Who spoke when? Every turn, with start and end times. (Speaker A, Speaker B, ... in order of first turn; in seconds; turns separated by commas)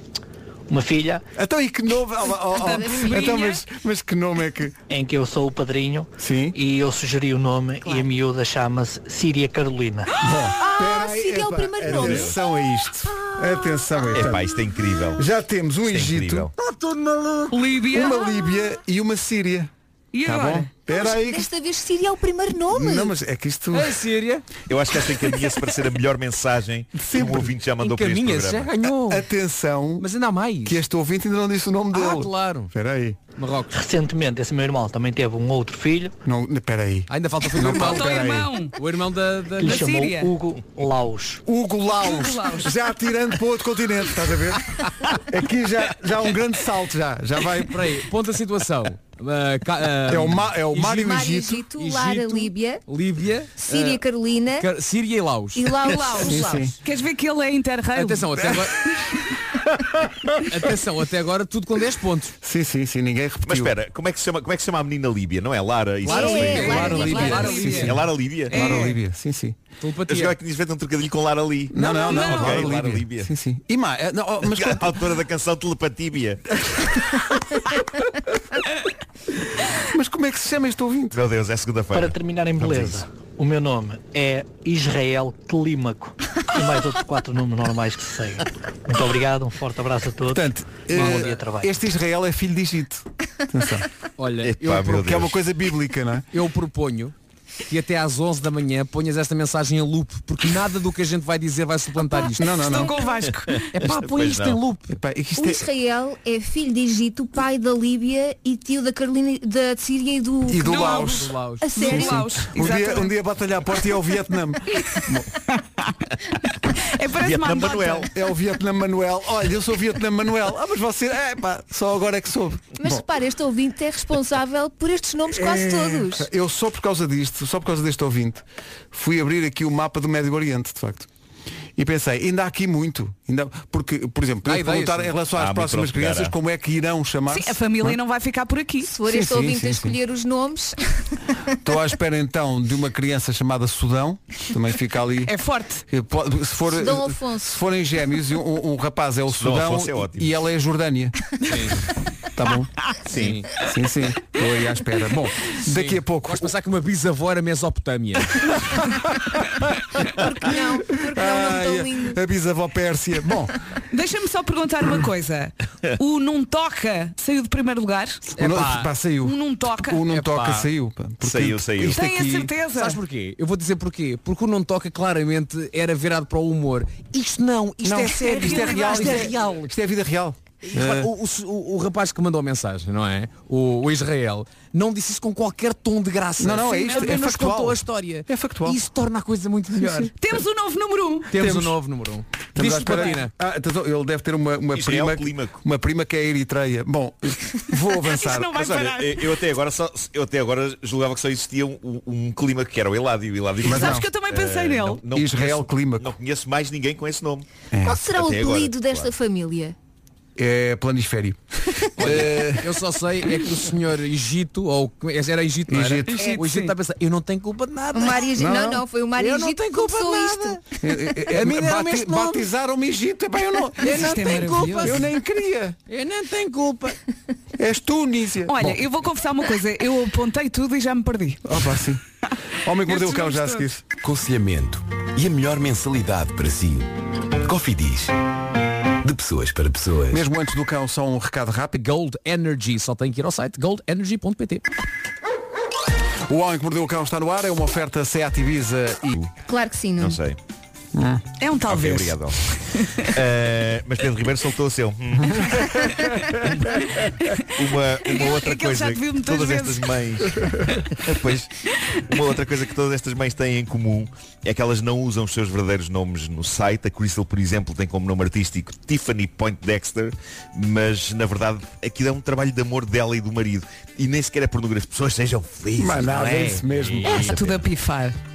Speaker A: 0.7-1.2, Speaker B: 1.4-4.8, Speaker C: 2.5-3.6, Speaker A: 4.9-10.1, Speaker B: 6.2-6.5, Speaker B: 10.2-14.6, Speaker D: 10.6-12.4, Speaker E: 11.9-12.3, Speaker E: 14.1-15.2, Speaker B: 15.2-16.5, Speaker E: 15.8-16.5, Speaker F: 16.6-17.5, Speaker C: 17.5-18.2, Speaker B: 17.9-19.7, Speaker C: 20.1-20.7, Speaker B: 20.2-21.5, Speaker D: 20.9-23.1, Speaker B: 22.7-24.0, Speaker F: 23.7-24.5, Speaker E: 24.7-28.7, Speaker B: 26.9-27.5, Speaker F: 27.8-29.2, Speaker B: 29.1-30.1, Speaker F: 30.0-30.8, Speaker B: 30.6-33.2, Speaker F: 31.9-32.7, Speaker F: 33.4-33.7, Speaker A: 33.7-36.1, Speaker B: 36.2-38.5, Speaker F: 37.1-38.2, Speaker C: 37.6-38.8, Speaker F: 38.8-39.8, Speaker A: 39.6-41.4, Speaker C: 39.6-40.3, Speaker B: 41.5-47.9, Speaker C: 42.0-42.7, Speaker F: 47.7-51.1, Speaker B: 50.0-51.6, Speaker D: 50.8-52.8, Speaker F: 51.7-54.0, Speaker D: 53.6-54.7, Speaker F: 54.6-55.8, Speaker D: 55.5-56.7, Speaker C: 56.0-58.5, Speaker B: 56.2-56.8, Speaker F: 57.9-58.8, Speaker B: 60.0-60.4, Speaker F: 60.5-62.3, Speaker B: 62.4-63.7, Speaker E: 63.4-67.2, Speaker D: 66.0-67.6, Speaker F: 66.1-68.0, Speaker B: 66.4-69.6, Speaker C: 66.8-67.9, Speaker E: 67.7-68.6, Speaker C: 68.5-69.0, Speaker F: 69.8-70.3, Speaker E: 70.1-73.3, Speaker B: 71.7-75.1, Speaker F: 72.0-72.7, Speaker C: 72.1-72.3, Speaker E: 74.4-76.4, Speaker B: 76.7-77.2, Speaker B: 79.7-81.2, Speaker E: 81.1-83.0, Speaker A: 81.9-91.8, Speaker B: 90.3-93.9, Speaker F: 90.9-91.3, Speaker F: 94.2-95.2, Speaker E: 94.4-95.4, Speaker B: 94.9-96.3, Speaker F: 96.3-97.1, Speaker F: 97.7-102.9, Speaker B: 102.4-103.0, Speaker C: 102.6-103.7, Speaker E: 103.5-104.6, Speaker F: 103.7-104.9, Speaker B: 104.9-105.6, Speaker D: 105.3-112.2, Speaker B: 110.5-115.3, Speaker C: 110.6-111.2, Speaker F: 111.1-111.7, Speaker C: 111.8-113.1, Speaker C: 115.5-118.1, Speaker E: 117.2-118.1, Speaker B: 118.1-123.0, Speaker D: 122.8-126.3, Speaker B: 125.3-131.1, Speaker B: 131.8-137.9, Speaker F: 134.4-135.2, Speaker E: 135.3-136.3, Speaker C: 137.3-138.9, Speaker D: 138.8-141.0, Speaker B: 139.1-139.9, Speaker B: 141.6-145.3, Speaker C: 145.2-145.8, Speaker B: 145.9-151.2, Speaker D: 146.7-147.6, Speaker E: 149.3-150.3, Speaker F: 151.5-151.8, Speaker B: 152.3-152.7, Speaker E: 153.1-153.4, Speaker F: 153.1-153.5, Speaker B: 153.6-156.5, Speaker F: 155.7-158.5, Speaker D: 160.1-162.2, Speaker B: 160.5-163.5, Speaker C: 163.9-168.2, Speaker B: 168.4-172.5, Speaker F: 168.4-168.9, Speaker C: 169.2-170.0, Speaker F: 170.1-170.7, Speaker E: 171.2-172.0, Speaker C: 171.8-173.0, Speaker F: 172.7-179.7, Speaker B: 177.8-181.1, Speaker C: 178.2-179.3, Speaker F: 180.6-190.1, Speaker B: 186.4-188.8, Speaker C: 186.8-187.1, Speaker B: 189.8-190.1, Speaker C: 190.2-191.3, Speaker F: 191.3-193.3, Speaker B: 191.3-191.8, Speaker B: 192.5-198.6, Speaker E: 194.7-195.6, Speaker C: 197.9-199.4, Speaker E: 198.5-207.5, Speaker B: 203.6-204.1, Speaker C: 203.6-205.0, Speaker B: 205.1-206.1, Speaker B: 207.7-208.0, Speaker D: 207.8-209.7, Speaker E: 208.0-209.1, Speaker B: 210.3-211.4, Speaker B: 212.0-212.8, Speaker F: 212.0-218.3, Speaker B: 215.7-216.3, Speaker C: 216.1-216.7, Speaker D: 217.9-220.6, Speaker B: 218.4-218.8, Speaker F: 219.2-220.6, Speaker B: 220.8-224.1, Speaker F: 221.3-222.4, Speaker F: 223.8-225.1, Speaker C: 223.9-224.9, Speaker B: 224.8-225.8, Speaker F: 225.9-227.0, Speaker B: 227.6-228.8, Speaker C: 228.5-231.6, Speaker B: 231.4-232.0, Speaker B: 232.6-233.8, Speaker C: 232.8-233.7, Speaker G: 234.0-236.9, Speaker G: 237.4-238.1, Speaker G: 239.0-240.2, Speaker B: 240.1-241.8, Speaker F: 241.8-244.6, Speaker B: 246.3-249.2, Speaker D: 249.5-250.2, Speaker E: 250.0-250.4, Speaker B: 250.9-251.2, Speaker C: 251.4-253.1, Speaker E: 251.7-252.4, Speaker E: 253.1-255.9, Speaker C: 255.9-256.3, Speaker E: 256.4-261.5, Speaker C: 256.8-257.4, Speaker C: 258.0-260.0, Speaker E: 262.1-277.6, Speaker B: 275.8-277.3, Speaker F: 276.1-276.6, Speaker C: 277.0-278.2